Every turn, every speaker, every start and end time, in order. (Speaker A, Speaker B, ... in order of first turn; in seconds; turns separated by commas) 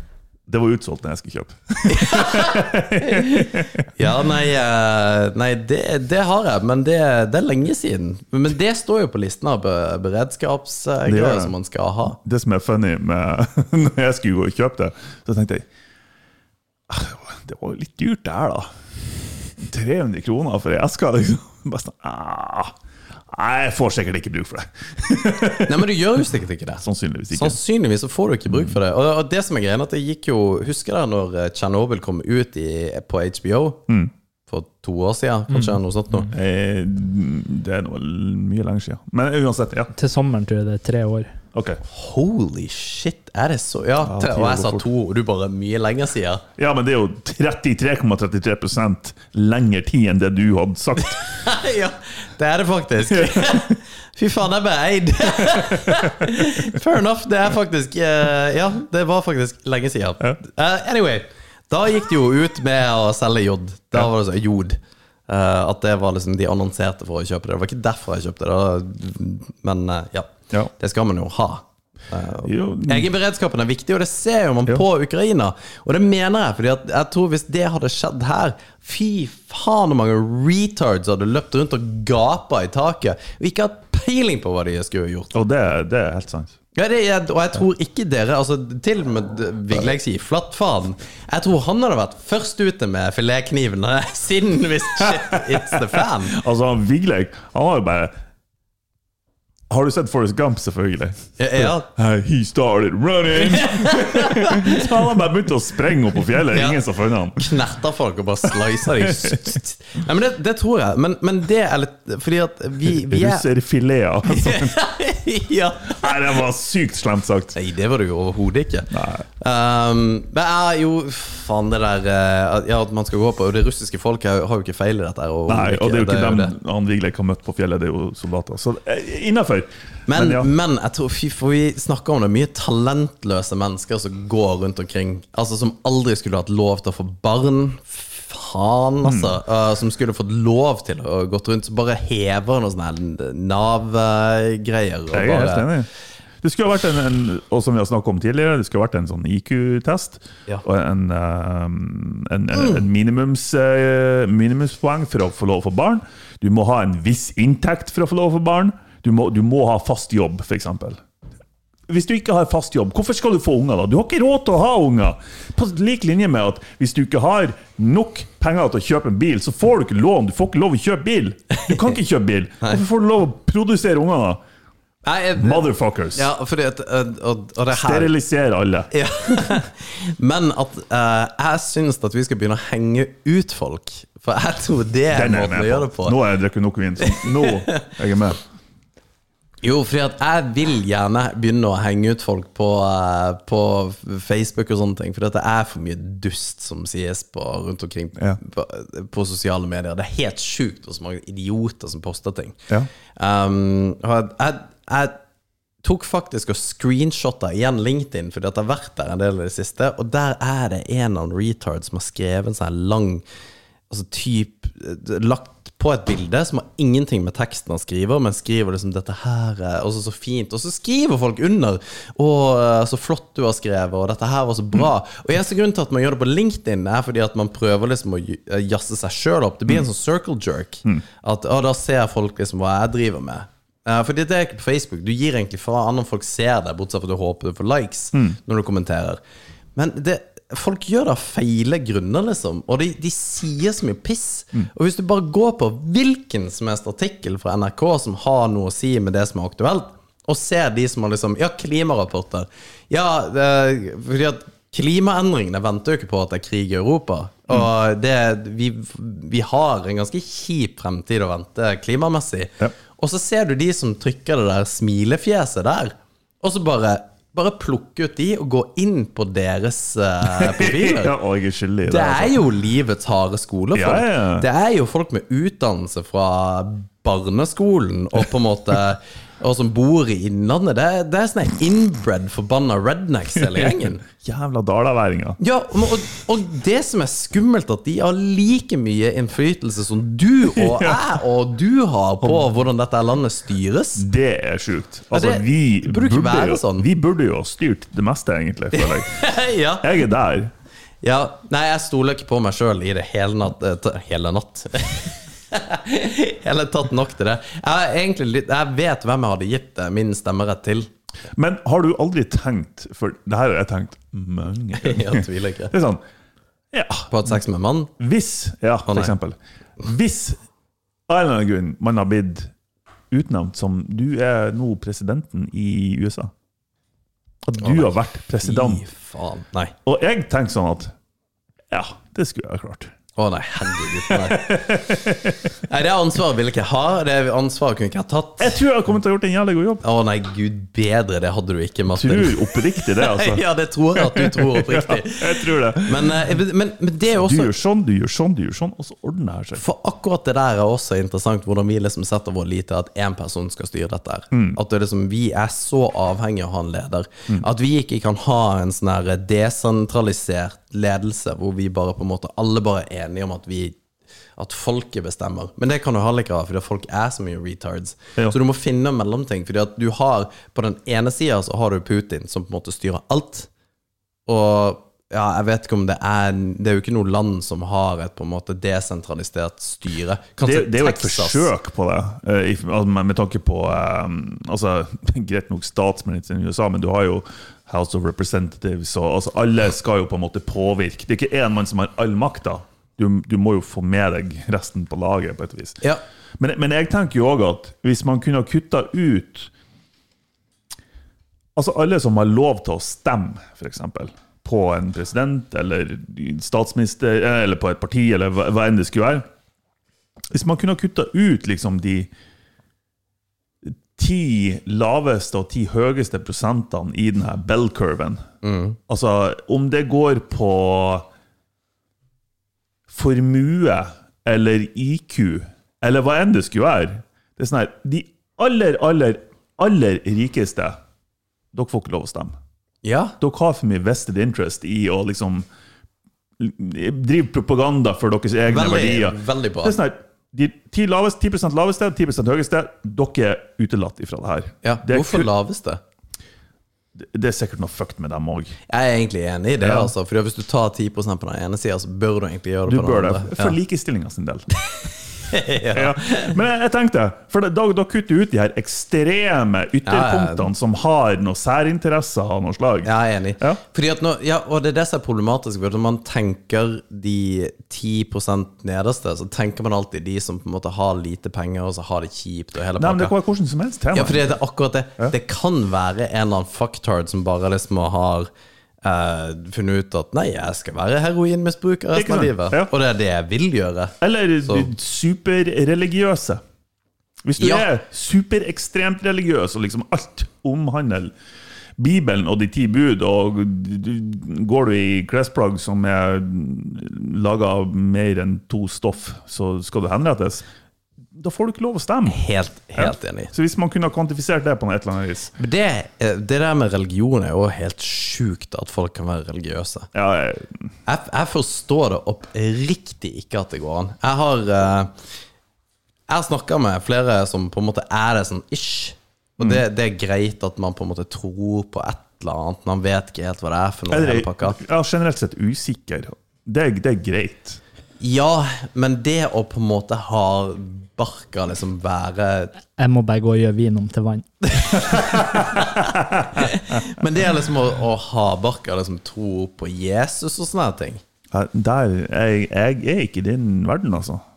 Speaker A: 0.5-3.9, Speaker B: 1.9-12.2, Speaker A: 11.1-11.5, Speaker A: 12.2-15.7, Speaker A: 16.9-18.7, Speaker A: 19.6-22.7, Speaker A: 23.3-25.9, Speaker B: 25.7-33.9, Speaker A: 26.8-27.6, Speaker B: 34.5-36.3, Speaker A: 36.3-39.9, Speaker C: 40.0-41.3, Speaker A: 41.5-41.8, Speaker B: 41.8-46.4, Speaker A: 44.0-44.8, Speaker A: 46.6-51.2, Speaker B: 51.1-85.3, Speaker A: 53.1-53.7, Speaker A: 55.4-56.3, Speaker A: 72.4-73.1, Speaker A: 85.3-86.5, Speaker B: 86.7-96.4, Speaker A: 95.3-98.1, Speaker A: 99.7-107.5, Speaker B: 101.4-101.9, Speaker B: 103.4-104.9, Speaker B: 106.5-106.8, Speaker B: 107.3-113.5, Speaker A: 109.0-109.5, Speaker A: 112.8-114.7, Speaker B: 114.3-116.4, Speaker A: 115.9-117.5, Speaker B: 117.5-126.5, Speaker A: 118.9-119.2, Speaker A: 125.5-130.5, Speaker B: 130.1-145.7, Speaker A: 139.0-139.3, Speaker A: 145.1-145.9, Speaker A: 146.4-161.0, Speaker B: 152.5-152.8, Speaker A: 161.9-174.4, Speaker B: 171.5-171.9, Speaker B: 175.0-178.1, Speaker A: 175.4-176.3, Speaker A: 177.7-178.9, Speaker B: 178.9-186.2, Speaker A: 185.1-188.4, Speaker B: 187.0-187.9, Speaker B: 189.6-202.6, Speaker B: 203.2-205.2, Speaker B: 205.8-213.2, Speaker B: 213.9-239.2, Speaker B: 239.7-271.1, Speaker A: 270.3-272.4, Speaker B: 271.9-284.0, Speaker A: 273.7-274.5, Speaker A: 283.4-285.4, Speaker B: 285.4-294.1, Speaker A: 290.5-291.0, Speaker A: 292.2-292.4, Speaker A: 293.9-299.3, Speaker B: 295.1-296.9, Speaker B: 298.7-299.9, Speaker A: 299.8-300.5, Speaker B: 301.0-310.9, Speaker A: 311.3-316.0, Speaker B: 314.8-315.7, Speaker A: 316.7-317.1, Speaker B: 317.1-317.9, Speaker A: 318.0-320.4, Speaker B: 318.9-319.1, Speaker A: 321.1-322.5, Speaker A: 323.1-326.3, Speaker A: 327.4-328.8, Speaker B: 327.6-329.7, Speaker A: 329.8-330.9, Speaker A: 331.7-332.9, Speaker B: 333.1-335.1, Speaker A: 333.9-335.5, Speaker B: 335.6-338.6, Speaker A: 338.4-339.8, Speaker B: 339.8-347.6, Speaker A: 341.9-343.4, Speaker A: 343.9-346.1, Speaker A: 347.2-349.6, Speaker B: 349.6-363.8, Speaker A: 354.3-354.6, Speaker B: 364.4-373.5, Speaker B: 374.2-381.5, Speaker A: 380.4-395.8, Speaker A: 396.4-399.5, Speaker A: 401.6-409.2, Speaker A: 410.3-412.1, Speaker A: 413.6-418.2, Speaker B: 418.4-418.8, Speaker A: 418.9-421.1, Speaker A: 422.9-430.8, Speaker A: 431.5-432.3, Speaker B: 432.8-433.1, Speaker A: 433.2-435.4, Speaker A: 436.4-445.3, Speaker B: 438.5-439.8, Speaker B: 444.6-445.8, Speaker A: 446.9-448.6, Speaker B: 448.7-453.5, Speaker A: 449.6-449.9, Speaker A: 452.7-454.5, Speaker B: 455.3-456.3, Speaker A: 455.7-462.9, Speaker B: 459.9-460.5, Speaker B: 462.8-473.1, Speaker A: 472.8-474.3, Speaker B: 473.9-478.3, Speaker B: 478.8-483.9, Speaker A: 481.9-482.7, Speaker A: 484.0-486.4, Speaker A: 487.2-491.1, Speaker B: 487.4-487.6, Speaker A: 491.8-500.4, Speaker A: 501.1-502.2, Speaker B: 502.1-503.3, Speaker A: 502.8-505.3, Speaker B: 505.4-509.9, Speaker A: 509.9-510.5, Speaker B: 510.9-514.9, Speaker B: 516.1-524.6, Speaker A: 523.9-527.6, Speaker B: 528.0-532.5, Speaker C: 532.8-534.2, Speaker B: 534.5-541.0, Speaker A: 535.1-536.5, Speaker A: 541.3-544.2